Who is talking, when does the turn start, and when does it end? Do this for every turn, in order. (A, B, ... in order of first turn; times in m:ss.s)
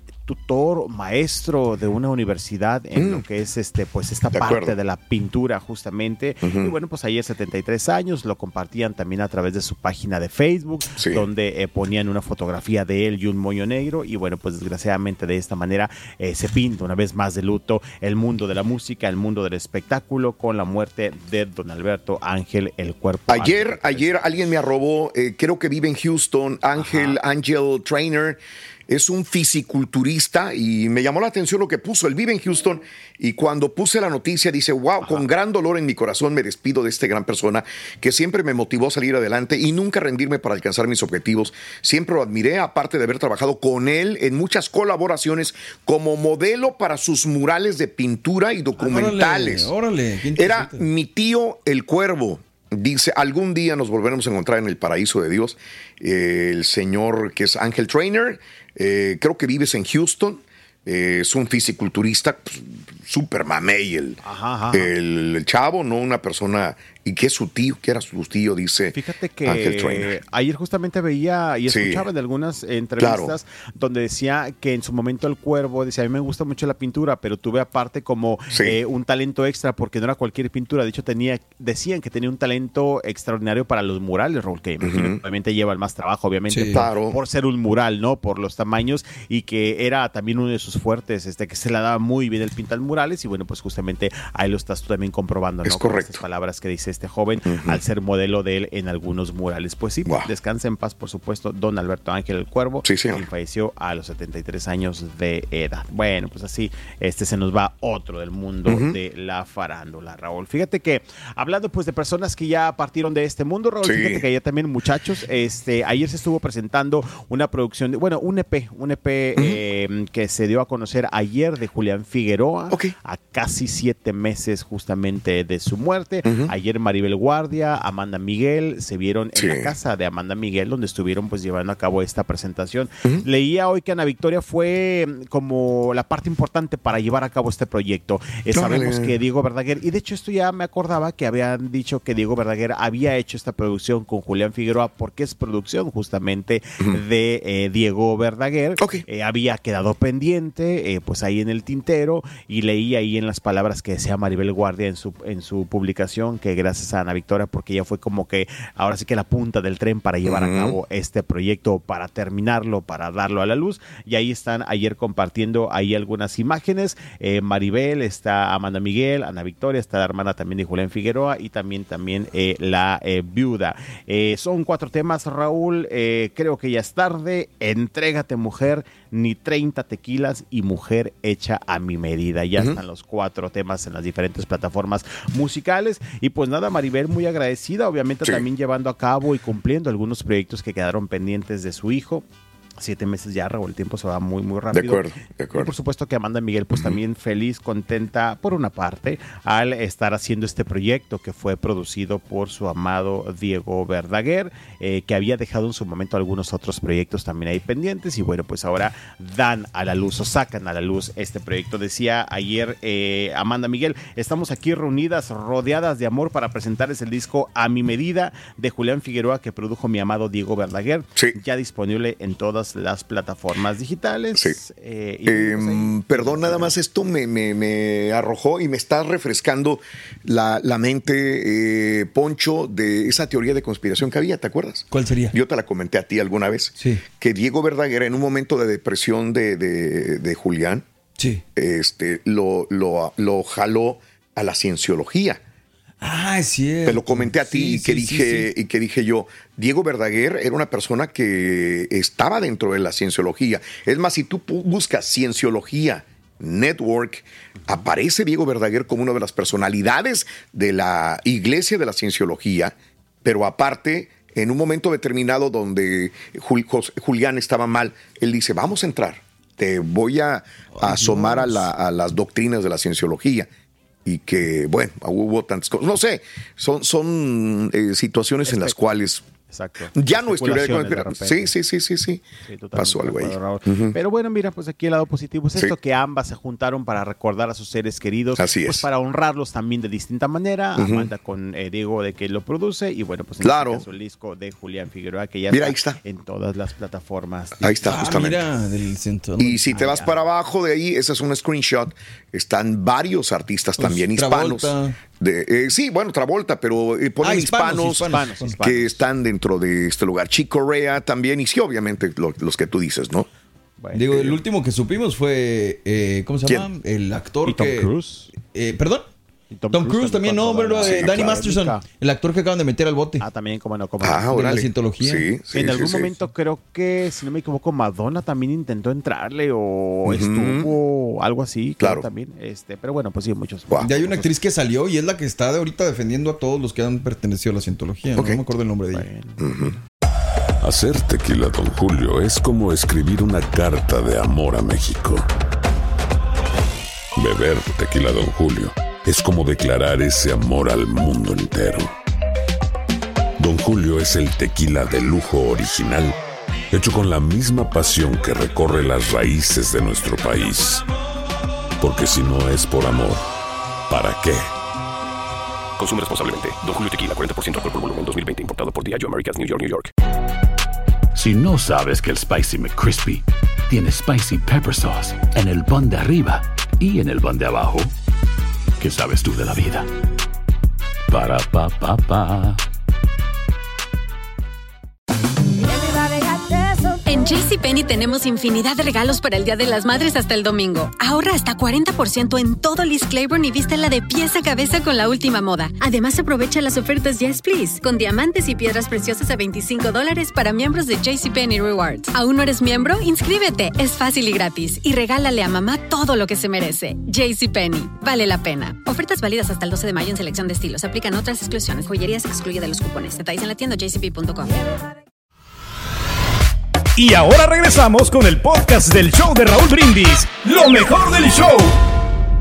0:00.3-0:24.1 A
0:03.0-0:03.2 B
0:04.3-0:04.7 B
0:06.4-0:06.7 B
0:11.0-0:11.2 B
0:23.3-0:49.7 B
0:26.8-0:27.2 A
0:48.8-0:50.9 C
0:50.4-1:04.2 B
1:04.2-1:04.9 A
1:04.7-1:10.2 B
1:08.9-3:12.2 A
1:11.7-1:12.0 B
1:13.0-1:13.3 B
1:24.8-1:25.2 B
1:26.5-1:26.8 C
1:26.7-1:27.2 B
1:35.6-1:36.2 B
1:37.5-1:37.8 B
1:42.8-1:43.2 B
1:48.7-1:49.0 B
1:53.8-1:54.2 B
2:06.2-2:06.5 B
2:09.4-2:09.7 B
2:18.5-2:19.2 B
2:28.8-2:29.0 B
2:40.2-2:40.8 B
3:12.8-3:46.8 A
3:14.7-3:15.7 B
3:45.3-4:00.8 B
3:54.9-3:55.4 C
3:56.8-3:57.0 C
4:01.2-4:01.4 C
4:01.6-4:05.4 B
4:06.0-4:08.5 C
4:06.8-4:33.5 B
4:30.8-4:31.7 C
4:34.0-4:39.2 B
4:38.4-4:38.8 A
4:39.5-4:41.5 A
4:39.9-4:42.2 B
4:42.5-4:57.6 A
4:42.8-4:44.0 B
4:48.4-4:48.8 B
4:50.8-4:51.1 B
4:53.4-4:53.8 B
4:55.5-4:56.0 B
4:57.6-4:58.5 B
4:57.8-4:59.6 C
4:59.4-5:13.3 B
4:59.7-5:00.2 A
5:03.8-5:05.0 C
5:07.2-5:08.5 C
5:07.9-5:09.0 A
5:13.8-5:14.4 A
5:13.9-5:19.1 C
5:17.4-5:18.3 A
5:19.5-5:21.8 A
5:19.7-5:23.2 C
5:20.8-5:21.4 B
5:23.2-5:24.4 A
5:24.0-5:26.1 B
5:24.3-5:25.2 C
5:25.5-5:34.3 A
5:30.1-5:30.7 B
5:33.8-5:39.1 C
5:38.2-5:38.4 B
5:38.9-5:39.4 A
5:39.4-5:39.8 B
5:40.6-5:45.3 D
5:47.2-5:51.9 D
5:53.4-5:56.2 D
5:56.7-6:00.9 D
6:01.8-6:03.2 D
6:03.9-6:04.5 D
6:05.8-6:09.9 E
6:11.2-6:17.9 F
6:18.8-6:19.9 F
6:21.1-6:22.6 F
6:27.0-6:54.6 G
6:57.0-7:01.7 H